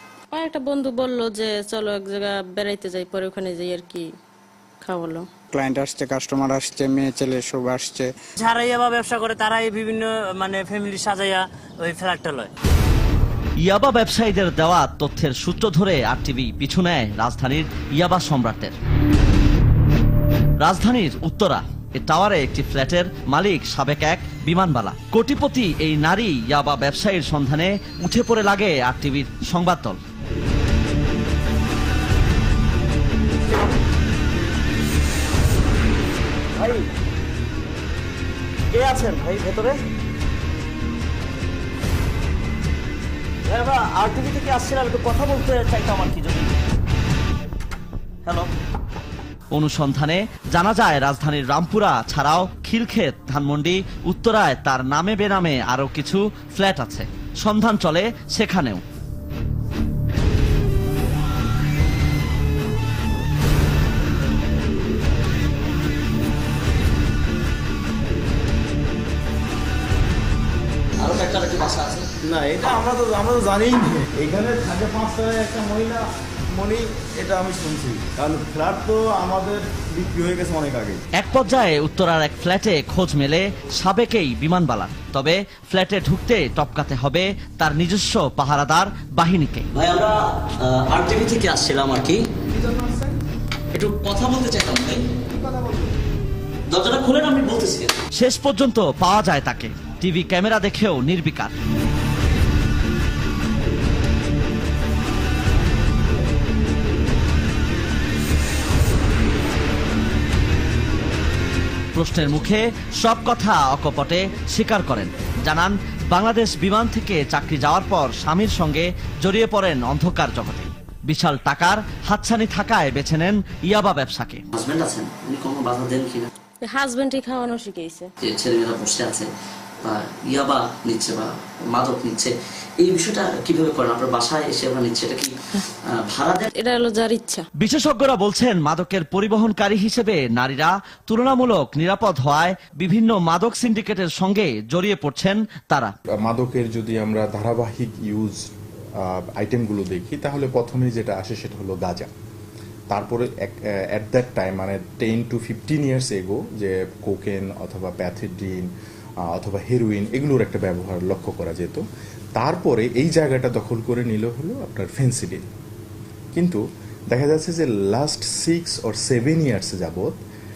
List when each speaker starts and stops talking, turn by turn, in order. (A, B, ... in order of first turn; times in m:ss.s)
0:00.3-0:04.0 A
0:04.8-0:05.2 A
0:05.5-0:08.1 B
0:08.4-0:12.5 C
0:13.6-0:18.7 D
0:20.6-0:30.0 D
0:36.6-0:36.8 D
0:38.7-0:39.7 D
0:43.5-0:46.5 D
0:49.5-0:58.8 D
1:11.0-1:12.1 E
1:12.2-1:21.0 F
1:21.2-1:29.7 D
1:29.7-1:32.2 E
1:33.7-1:35.0 E
1:36.7-1:38.0 E
1:38.1-1:41.5 D
1:51.9-2:04.5 D
2:04.5-2:06.3 E
2:06.6-2:08.1 A
2:08.2-2:09.3 E
2:09.8-2:16.4 E
2:16.4-2:17.5 A
2:17.6-2:25.9 D
2:26.2-2:28.5 G
2:29.0-2:32.1 G
2:32.9-2:38.7 G
2:39.3-2:41.8 G
2:42.4-2:45.4 G
2:46.3-2:50.2 G